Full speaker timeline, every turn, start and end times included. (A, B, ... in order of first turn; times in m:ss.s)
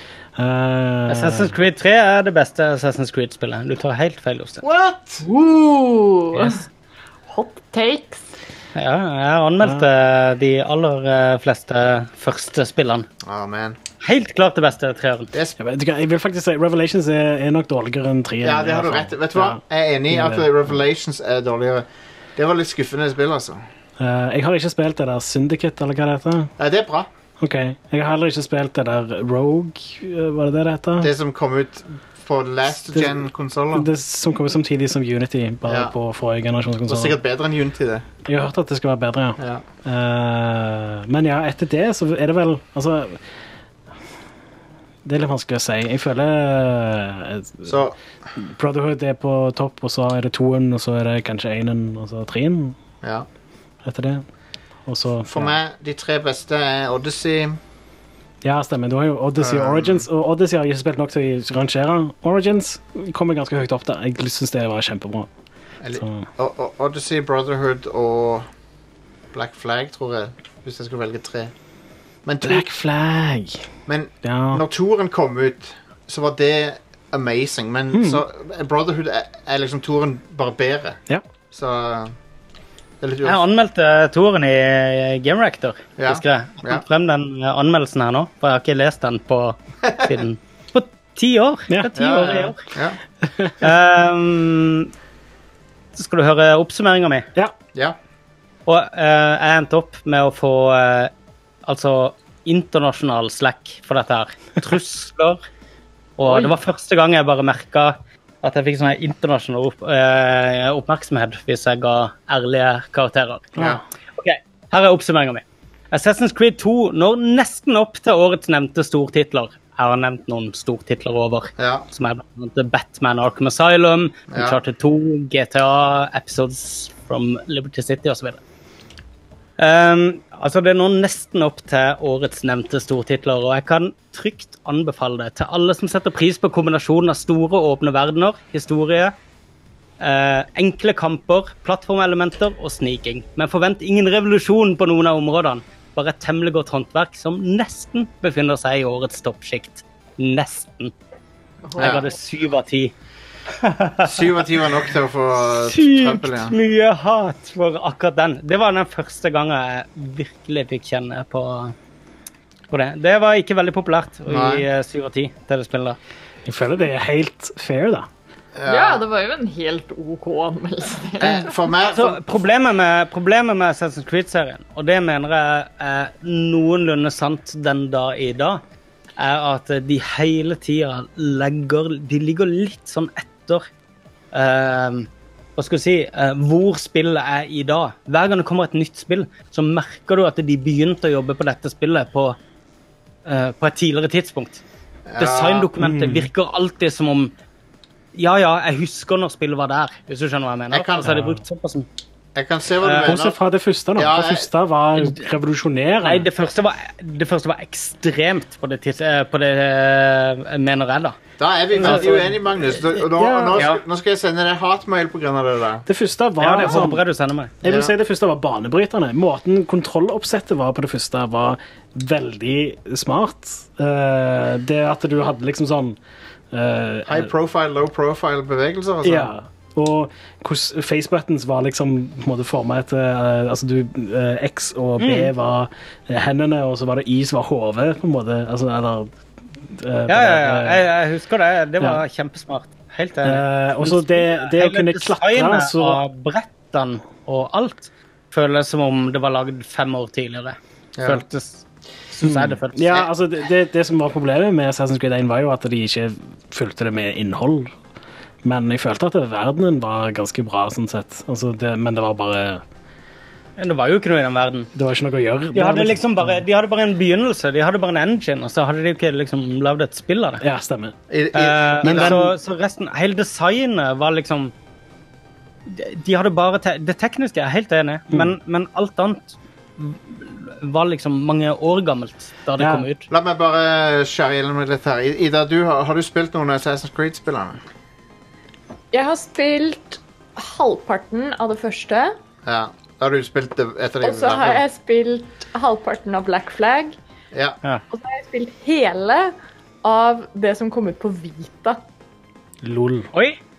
0:00.4-0:01.5 A
0:01.1-0:04.6 B
0:04.6-0:05.2 C
0:05.2-0:06.6 D
0:06.3-0:06.6 B
0:07.3-0:08.2 D
0:08.7-0:13.1 B
0:13.2-0:13.8 C
0:14.0-0:15.3 B
0:15.3-0:15.6 C
0:15.6-0:20.5 A
0:18.4-0:23.6 C
0:24.0-0:26.5 A
0:26.6-0:27.1 C
0:27.4-0:31.1 A
0:31.0-0:33.9 C
0:33.7-0:37.2 A
0:35.6-0:35.9 C
0:36.9-0:38.1 C
0:38.2-0:43.2 A
0:39.4-0:39.6 C
0:45.0-0:47.8 A
0:47.6-0:48.0 C
0:48.4-0:52.8 A
0:53.0-0:53.3 C
0:53.8-0:54.2 A
0:54.9-0:55.5 A
0:55.2-0:57.6 C
0:58.4-1:05.3 A
0:59.4-1:00.1 C
1:05.8-1:08.5 C
1:06.0-1:06.2 A
1:09.3-1:11.5 C
1:12.2-1:12.6 C
1:12.4-1:13.6 A
1:13.9-1:21.0 C
1:14.2-1:14.6 A
1:17.9-1:18.2 A
1:21.5-1:22.1 C
1:23.0-1:23.4 C
1:23.2-1:32.6 B
1:26.0-1:26.8 C
1:29.8-1:30.1 C
1:31.7-1:32.5 A
1:32.0-1:33.0 C
1:33.2-1:33.5 A
1:33.6-1:34.9 B
1:36.0-1:37.3 B
1:38.6-1:41.1 B
1:41.6-1:45.4 B
1:46.2-1:53.5 B
1:53.6-1:53.8 A
1:53.6-1:53.8 C
1:54.2-2:08.4 B
2:01.6-2:01.8 C
2:04.3-2:04.6 C
2:09.6-2:19.1 B
2:20.0-2:30.9 B
2:31.8-2:32.9 B
2:31.8-2:32.0 C
2:33.6-2:34.3 B
2:34.0-2:36.5 C
2:35.5-2:41.7 B
2:42.7-2:46.0 B
2:44.3-2:44.6 C
2:46.4-2:48.1 A
2:48.6-2:49.0 C
2:48.6-2:51.5 D
2:51.2-2:52.2 C
2:51.8-2:58.6 B
2:59.2-3:03.7 B
3:04.3-3:12.4 B
3:13.2-3:14.6 B
3:15.0-3:15.7 C
3:15.2-3:17.3 B
3:15.8-3:16.3 A
3:18.1-3:21.8 B
3:20.7-3:21.2 C
3:21.0-3:21.3 A
3:22.3-3:23.4 C
3:22.8-3:23.1 B
3:23.0-3:26.3 A
3:23.9-3:24.5 C
3:25.0-3:25.2 B
3:26.0-3:31.2 B
3:31.4-3:35.8 C
3:31.7-3:32.8 B
3:31.8-3:32.1 A
3:33.2-3:33.7 A
3:33.6-3:33.8 B
3:35.8-3:37.0 A
3:36.4-3:37.5 B
3:37.6-3:37.9 C
3:37.6-3:46.0 A
3:46.5-3:47.3 A
3:47.0-3:49.3 C
3:49.0-3:59.1 A
3:55.0-3:55.3 B
3:59.7-4:00.8 A
4:00.1-4:13.0 B
4:03.2-4:06.0 A
4:11.0-4:11.2 C
4:12.2-4:17.7 A
4:18.4-4:22.6 A
4:23.6-4:24.7 B
4:24.7-4:26.4 A
4:25.5-4:30.4 B
4:30.4-4:31.0 A
4:31.1-4:32.2 C
4:31.3-4:34.5 B
4:31.8-4:32.3 A
4:35.7-4:43.1 B
4:42.6-4:42.9 A
4:43.1-4:47.6 C
4:48.9-4:52.1 D
4:52.4-4:54.6 C
4:54.0-4:56.9 D
4:57.3-4:57.6 C
4:57.9-5:01.8 D
5:02.6-5:03.1 A